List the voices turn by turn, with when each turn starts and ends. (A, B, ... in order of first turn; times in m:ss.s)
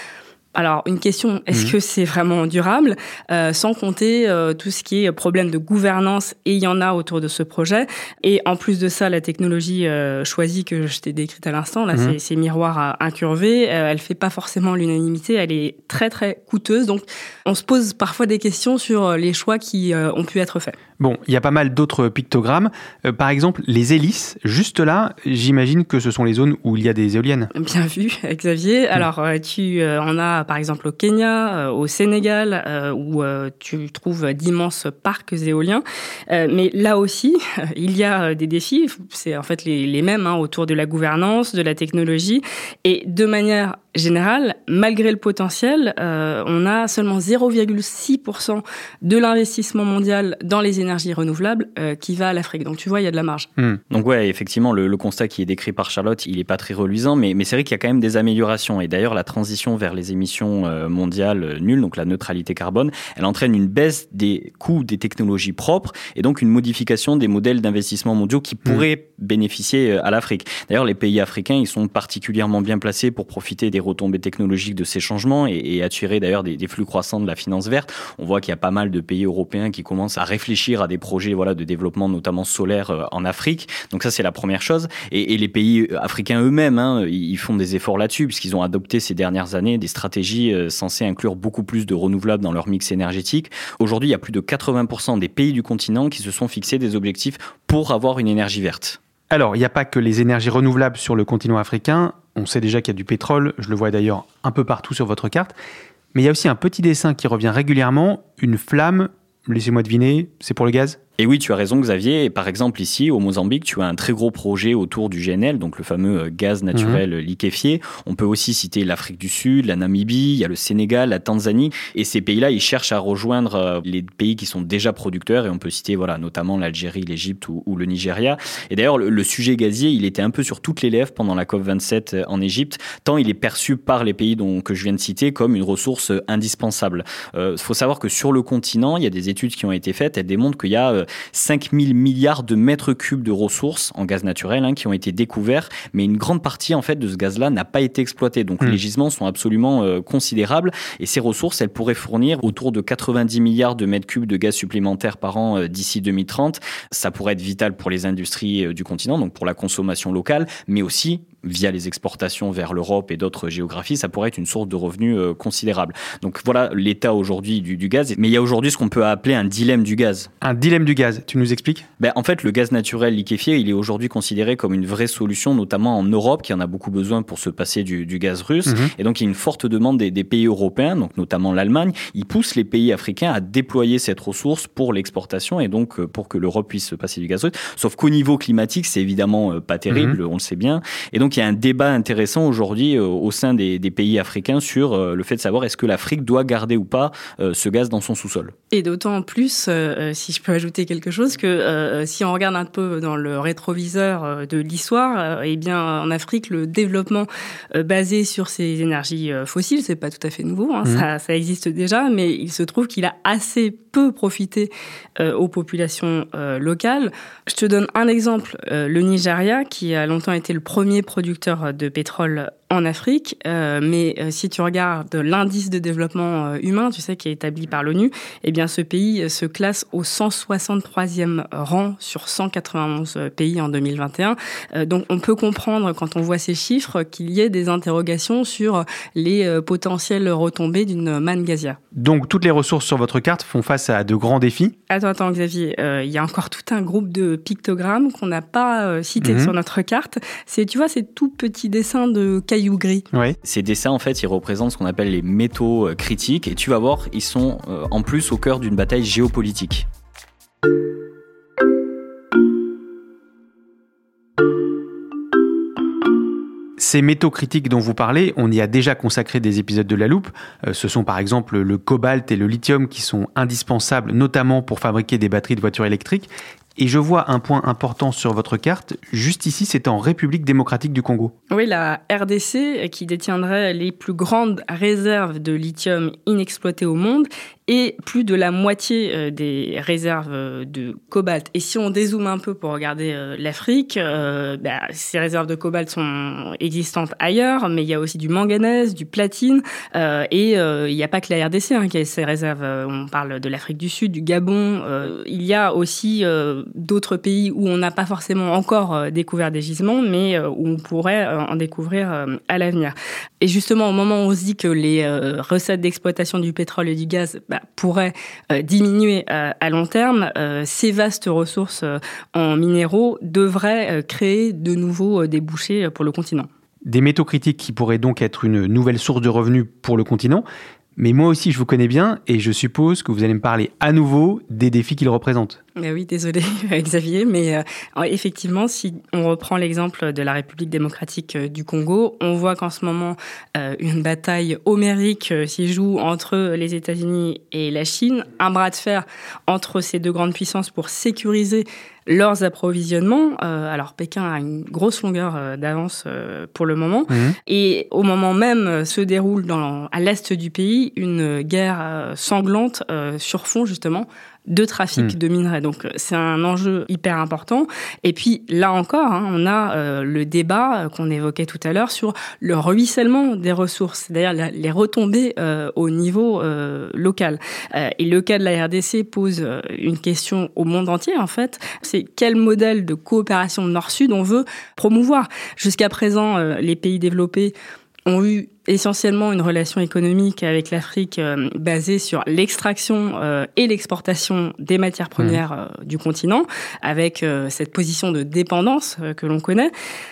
0:00.5-0:20.8 A
0:21.0-0:27.5 B
0:27.5-0:53.5 A
0:53.9-1:39.0 C
1:39.3-1:45.6 B
1:46.1-1:51.0 B
1:51.2-2:50.3 C
1:56.7-1:57.0 B
2:50.4-2:51.8 B
2:52.0-3:18.5 C
2:58.6-2:58.9 B
3:09.9-3:10.2 B
3:18.7-4:01.8 A
4:01.9-4:04.7 B
4:04.9-4:13.0 A
4:09.2-4:09.5 B
4:13.4-4:19.9 C
4:26.8-4:41.3 B
4:41.5-5:26.5 A
5:26.9-5:30.4 B
5:31.0-5:35.6 B
5:35.8-6:27.5 A
5:57.1-5:57.4 B
6:28.1-6:39.7 A